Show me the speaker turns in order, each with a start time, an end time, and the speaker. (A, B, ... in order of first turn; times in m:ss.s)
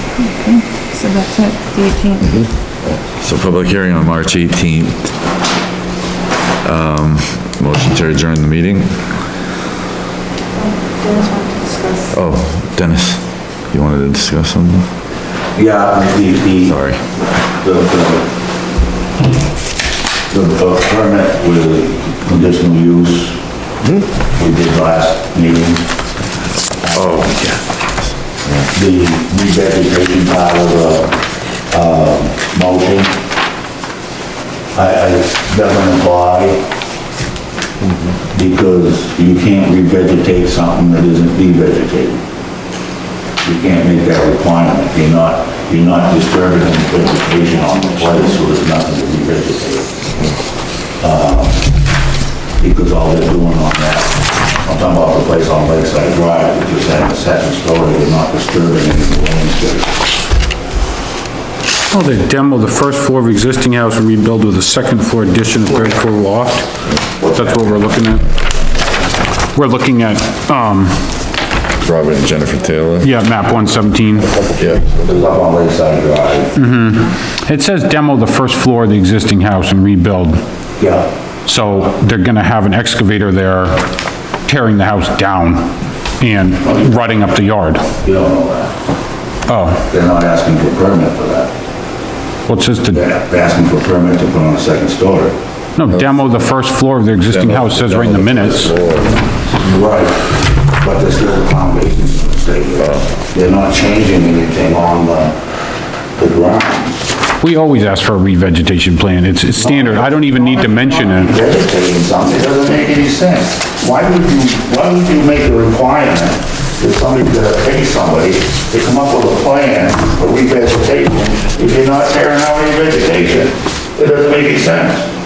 0:00.2-0:02.2 A
0:03.1-0:05.1 B
0:06.6-0:09.2 B
0:10.7-0:12.1 A
0:12.1-0:14.9 B
0:15.5-0:18.3 C
0:16.6-0:17.0 B
0:20.3-0:23.4 C
0:24.3-0:25.8 C
0:26.8-0:27.3 C
0:26.9-0:28.7 B
0:28.7-0:33.1 C
0:34.7-0:36.6 C
0:38.3-0:42.2 C
0:43.4-0:50.0 C
0:51.0-0:51.6 C
0:52.6-0:59.9 C
1:01.9-1:08.3 D
1:07.2-1:08.1 C
1:09.5-1:11.1 D
1:11.8-1:13.1 B
1:13.0-1:14.4 D
1:14.5-1:16.5 C
1:14.6-1:14.8 B
1:16.5-1:20.4 D
1:20.8-1:21.1 C
1:21.4-1:23.9 D
1:24.4-1:27.9 D
1:28.0-1:28.7 C
1:29.5-1:29.8 D
1:29.8-1:31.5 C
1:32.5-1:33.0 D
1:32.6-1:35.4 C
1:35.7-1:38.8 D
1:37.3-1:39.1 B
1:39.3-1:45.4 C
1:42.8-1:43.0 B
1:46.2-1:47.0 C
1:47.4-1:51.3 D
1:49.6-2:05.1 C